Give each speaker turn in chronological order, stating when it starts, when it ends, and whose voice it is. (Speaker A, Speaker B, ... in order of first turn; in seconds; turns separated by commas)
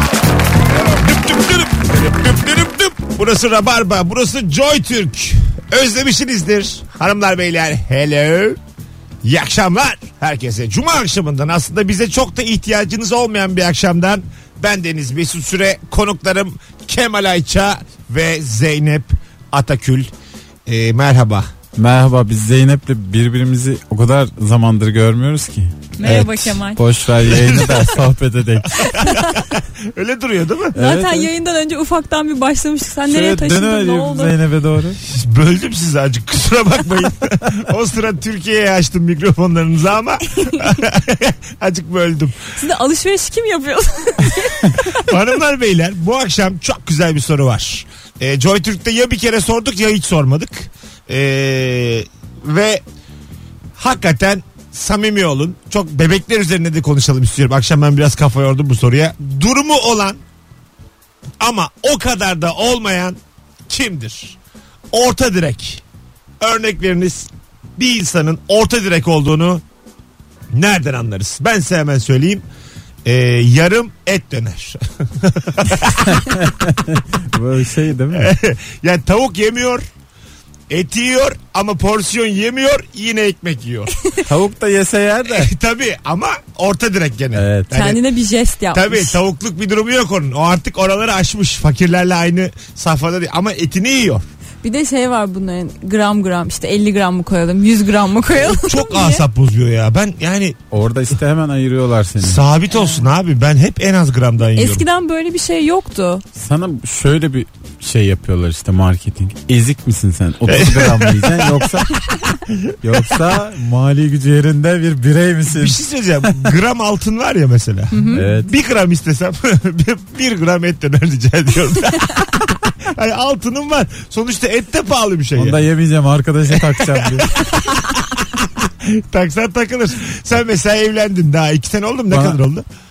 Speaker A: 1.0-8.6, Speaker A: 9.2-20.1, Speaker A: 20.6-21.5, Speaker B: 21.8-29.0, Speaker C: 26.0-26.8, Speaker A: 27.2-28.0, Speaker A: 28.6-30.8, Speaker C: 28.9-29.4, Speaker B: 30.7-31.3, Speaker C: 30.8-34.3, Speaker B: 33.1-35.0, Speaker A: 35.0-42.5, Speaker C: 42.5-45.1, Speaker A: 45.0-52.8, Speaker A: 53.8-60.2, Speaker A: 61.4-64.4, Speaker A: 64.9-65.8, Speaker A: 66.4-69.6, Speaker A: 70.5-72.4, Speaker A: 73.0-76.2, Speaker B: 76.0-78.3, Speaker A: 78.1-79.8, Speaker A: 80.7-83.9, Speaker B: 84.2-85.5, Speaker A: 85.2-88.0, Speaker B: 87.3-87.7, Speaker C: 87.7-89.2, Speaker A: 88.7-94.2, Speaker C: 94.6-99.2, Speaker A: 98.3-100.6, Speaker B: 100.7-102.4, Speaker A: 102.2-104.8, Speaker C: 102.7-103.0, Speaker C: 104.5-106.2, Speaker B: 106.3-111.9, Speaker A: 110.5-113.2, Speaker B: 112.8-115.8, Speaker A: 115.5-125.6, Speaker C: 117.9-118.2, Speaker B: 118.1-118.5, Speaker B: 125.3-127.3, Speaker A: 126.7-132.7, Speaker B: 132.1-132.4